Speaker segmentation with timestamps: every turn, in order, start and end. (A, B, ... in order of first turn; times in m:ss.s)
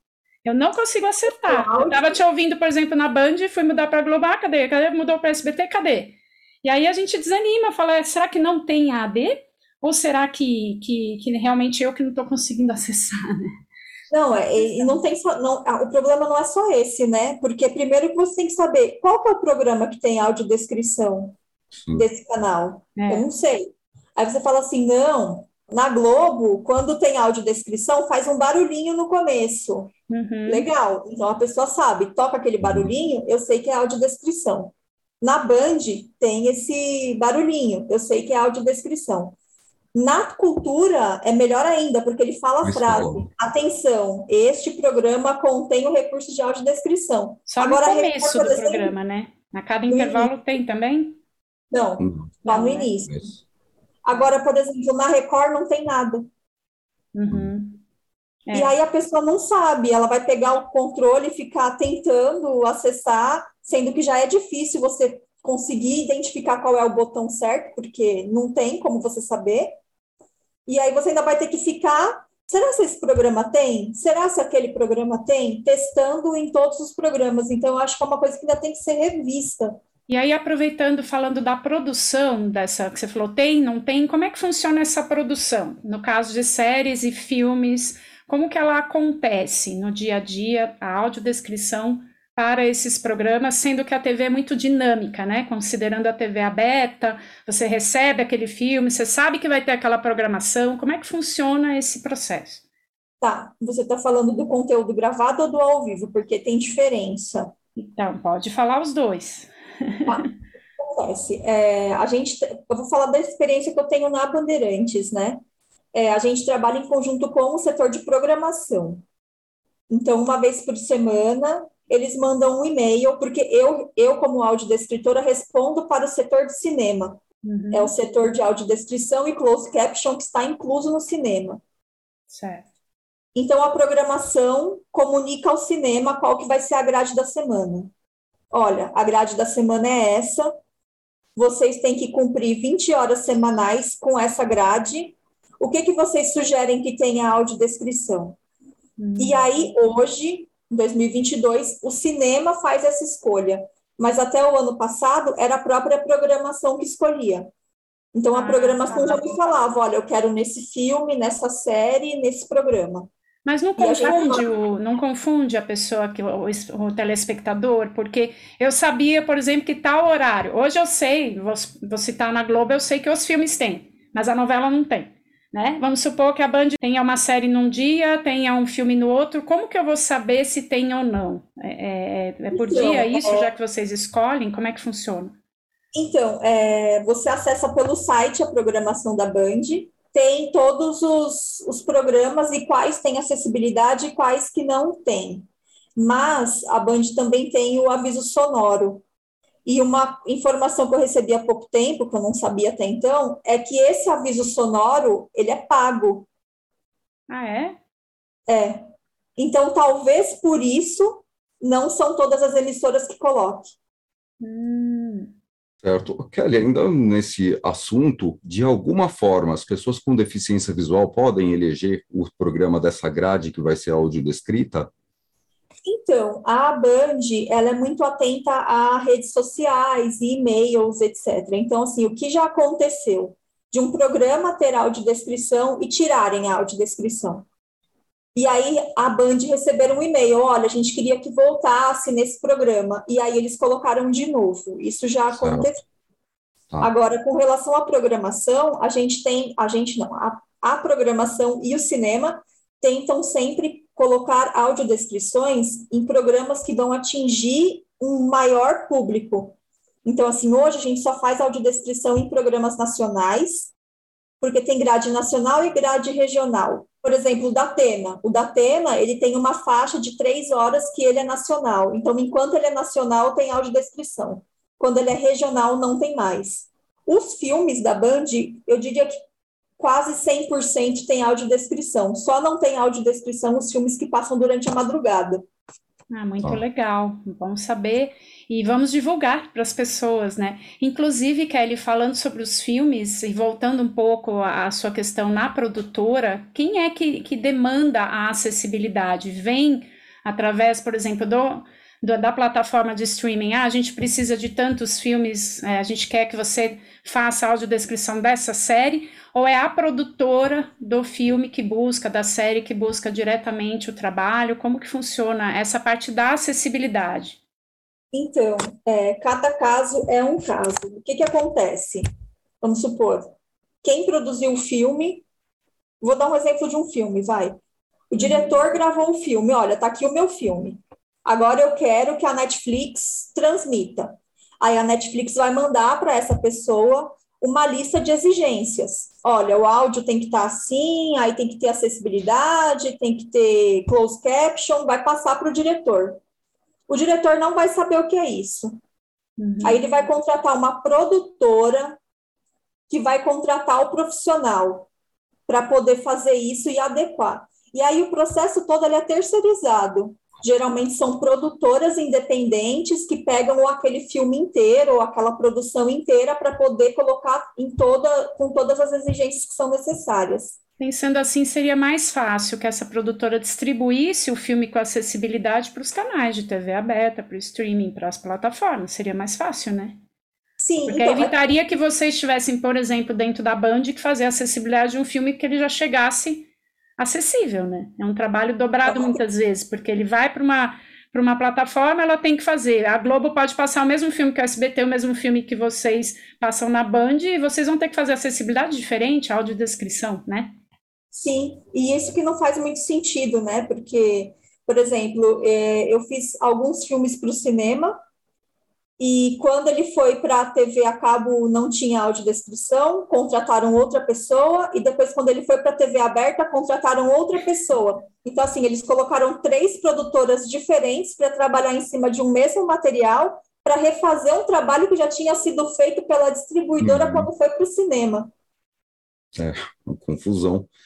0:00.4-0:13.6 A
0:01.4-0:02.2 B
0:14.1-0:21.4 B
0:21.8-0:22.1 C
0:22.0-0:29.9 B
0:23.0-0:23.2 A
0:30.1-0:30.7 A
0:30.5-0:39.4 B
0:32.6-0:32.9 C
0:39.9-0:48.9 B
0:42.6-0:43.3 C
0:47.5-0:51.2 A
0:49.9-0:50.3 B
0:51.7-0:53.3 B
0:52.0-0:52.3 C
0:52.4-0:52.9 A
0:53.1-0:53.3 C
0:54.0-0:56.3 B
0:57.1-0:57.8 A
0:58.5-0:58.7 A
0:58.5-1:09.8 B
1:10.7-1:19.8 B
1:20.1-1:42.6 A
1:43.2-1:47.5 B
1:47.8-1:50.3 A
1:50.8-1:55.4 B
1:55.9-1:59.0 B
1:59.9-2:07.2 B
2:07.4-2:07.9 A
2:07.7-2:11.6 B
2:12.3-2:12.7 A
2:13.4-2:17.9 B
2:18.5-2:20.5 B
2:21.4-2:28.4 B
2:29.0-2:29.7 A
2:29.2-2:37.5 B
2:38.1-2:43.1 B
2:38.3-2:39.2 A
2:43.5-3:05.4 A
2:43.8-2:44.5 B
3:02.5-3:03.5 B
3:05.9-3:19.0 B
3:19.7-3:26.3 B
3:27.3-3:27.8 A
3:28.5-3:28.8 B
3:29.4-3:33.7 B
3:34.4-3:35.3 A
3:35.8-3:44.9 C
3:45.8-3:57.5 B
3:58.4-4:05.8 B
4:05.4-4:05.7 C
4:06.8-4:23.7 B
4:24.4-4:39.1 B
4:39.8-4:45.4 B
4:46.1-5:17.4 A
5:18.1-5:22.0 B
5:22.6-5:25.2 B
5:26.0-5:27.6 B
5:28.1-5:46.2 B
5:28.2-5:28.6 A
5:46.9-5:48.8 B
5:49.4-5:49.8 A
5:49.6-5:52.0 B
5:52.9-5:54.9 B
5:55.5-6:10.6 B
6:10.8-6:20.0 A
6:20.6-6:21.4 B
6:20.9-6:40.6 A
6:28.9-6:29.2 B
6:41.1-6:48.0 B
6:49.0-7:08.3 B
7:06.8-7:07.3 C
7:09.4-7:10.7 C